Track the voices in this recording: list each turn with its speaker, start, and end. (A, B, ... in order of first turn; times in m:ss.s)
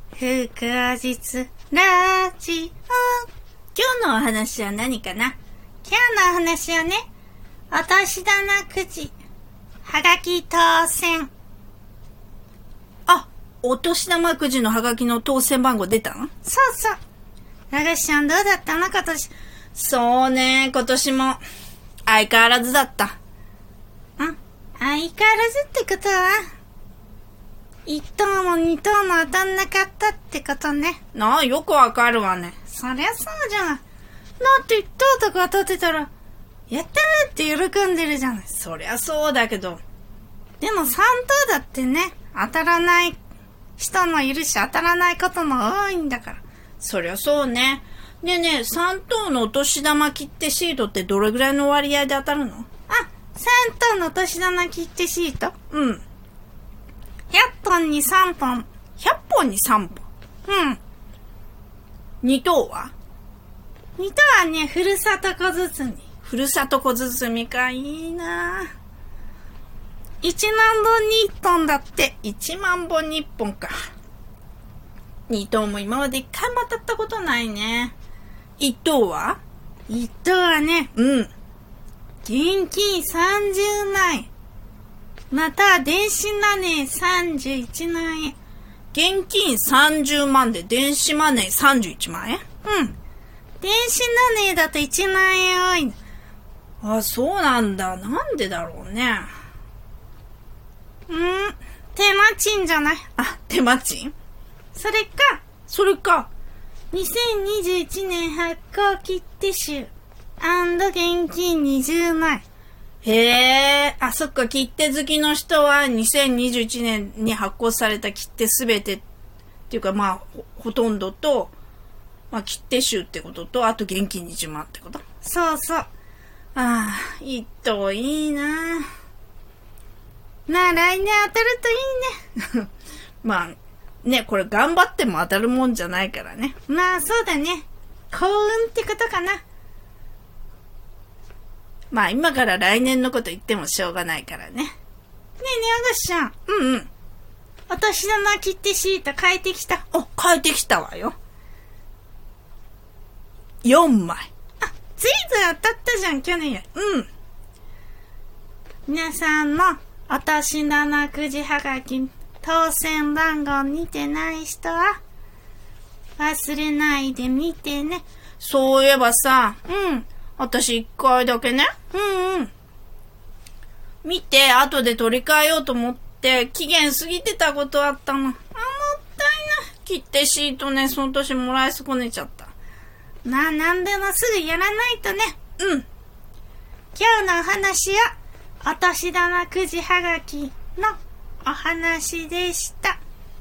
0:00.2-0:03.3 A
0:03.8-0:05.3 B
0:05.8-0:07.0 A
0:07.7-0:09.1 A
0:09.8-0:11.3 A
0:13.1-0:16.3 B
0:16.4-0:17.0 A
0:17.7-0:19.3 A
0:19.8-0:21.4 B
0:22.1-0:23.1 B
0:24.2-0:26.5 A
0:27.9-0:31.0 A
0:31.2-0:32.6 B
0:32.6-0:33.8 A
0:34.4-0:36.1 A
0:36.7-0:38.7 A
0:38.6-0:39.8 B
0:40.6-0:43.2 A
0:43.8-0:46.4 A
0:46.8-0:52.7 B
0:52.9-0:55.6 A
0:55.7-0:56.0 B
0:57.3-0:58.7 A
0:59.0-1:00.0 B
1:00.5-1:00.8 A
1:02.2-1:02.9 B
1:04.0-1:06.3 A
1:06.2-1:08.7 B
1:10.2-1:12.9 A
1:12.5-1:13.9 B
1:15.3-1:17.9 B
1:17.5-1:17.7 A
1:18.6-1:19.4 B
1:19.9-1:21.0 A
1:21.0-1:21.3 B
1:22.2-1:24.3 A
1:25.3-1:28.4 A
1:28.9-1:32.5 B
1:32.6-1:32.9 A
1:33.6-1:36.0 A
1:36.8-1:39.3 B
1:41.1-1:43.1 A
1:43.2-1:44.1 B
1:44.7-1:45.7 A
1:45.7-1:46.3 B
1:46.9-1:52.4 A
1:53.0-1:59.0 B
1:59.7-2:01.5 B
2:02.3-2:05.0 B
2:05.2-2:05.9 A
2:06.6-2:08.9 B
2:10.5-2:12.3 A
2:13.2-2:16.6 B
2:16.5-2:19.4 A
2:21.9-2:24.7 B
2:23.7-2:24.1 A
2:25.4-2:26.6 A
2:26.5-2:26.9 B
2:27.7-2:30.2 A
2:29.9-2:31.2 B
2:33.6-2:34.3 B
2:34.6-2:36.8 A
2:36.8-2:37.1 B
2:38.9-2:45.0 A
2:46.2-2:48.0 A
2:48.4-2:51.9 B
2:51.8-2:52.5 A
2:54.0-3:02.5 B
3:03.2-3:05.4 A
3:06.9-3:13.0 A